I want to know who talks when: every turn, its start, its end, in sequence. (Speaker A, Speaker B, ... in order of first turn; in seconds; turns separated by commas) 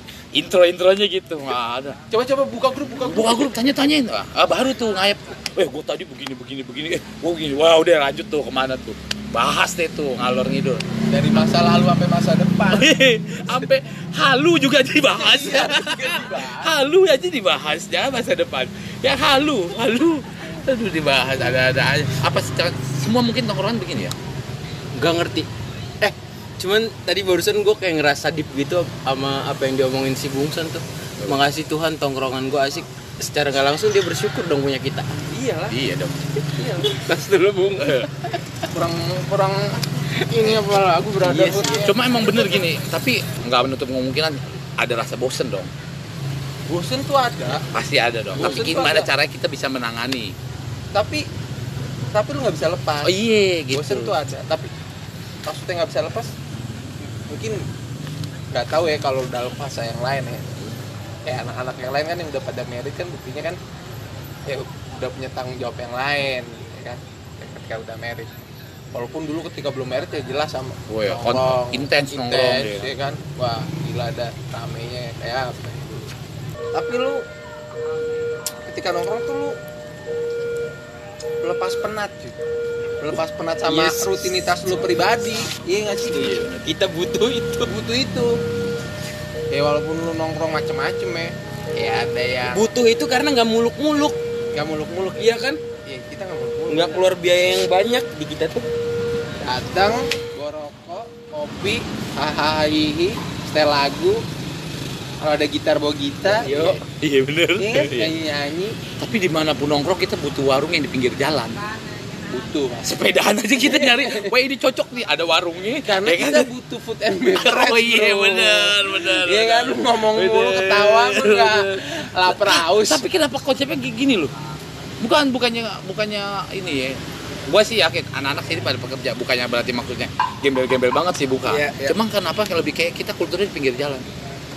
Speaker A: 0.3-2.0, Speaker B: 2.1-3.5, Speaker A: 3.0-10.8, Speaker B: 11.1-12.9, Speaker A: 12.7-24.1, Speaker B: 15.1-16.7, Speaker C: 24.9-25.5, Speaker C: 26.0-35.2, Speaker B: 35.3-35.8, Speaker A: 35.7-36.3, Speaker C: 36.4-38.4, Speaker B: 36.6-36.9, Speaker A: 37.8-38.1, Speaker B: 38.7-42.0, Speaker C: 40.2-40.5, Speaker C: 41.2-41.9, Speaker A: 41.8-45.7, Speaker B: 46.7-47.6, Speaker A: 47.7-50.3, Speaker B: 48.4-49.1, Speaker B: 50.9-51.2, Speaker B: 52.1-53.2, Speaker A: 53.0-54.1, Speaker B: 53.7-54.7, Speaker B: 55.5-56.3, Speaker B: 57.2-57.6, Speaker B: 58.5-60.5, Speaker B: 61.2-63.6, Speaker B: 64.4-68.3, Speaker B: 68.9-76.1, Speaker A: 70.9-72.9, Speaker B: 76.7-77.2, Speaker B: 78.7-79.6, Speaker B: 81.4-82.3, Speaker B: 83.0-86.4, Speaker C: 83.7-84.2, Speaker A: 86.1-86.7, Speaker C: 86.2-87.7, Speaker B: 87.7-88.4, Speaker B: 89.5-92.7, Speaker C: 92.5-94.2, Speaker B: 94.5-97.0, Speaker C: 95.2-95.6, Speaker C: 96.7-98.7, Speaker B: 99.4-104.2, Speaker B: 105.2-106.8, Speaker C: 106.4-106.8, Speaker A: 106.5-108.1, Speaker B: 107.6-108.8, Speaker A: 109.0-111.6, Speaker B: 112.3-112.9, Speaker A: 112.8-116.5, Speaker B: 113.6-114.3, Speaker B: 115.8-123.0, Speaker A: 117.3-124.3, Speaker A: 125.0-134.0, Speaker C: 131.4-131.9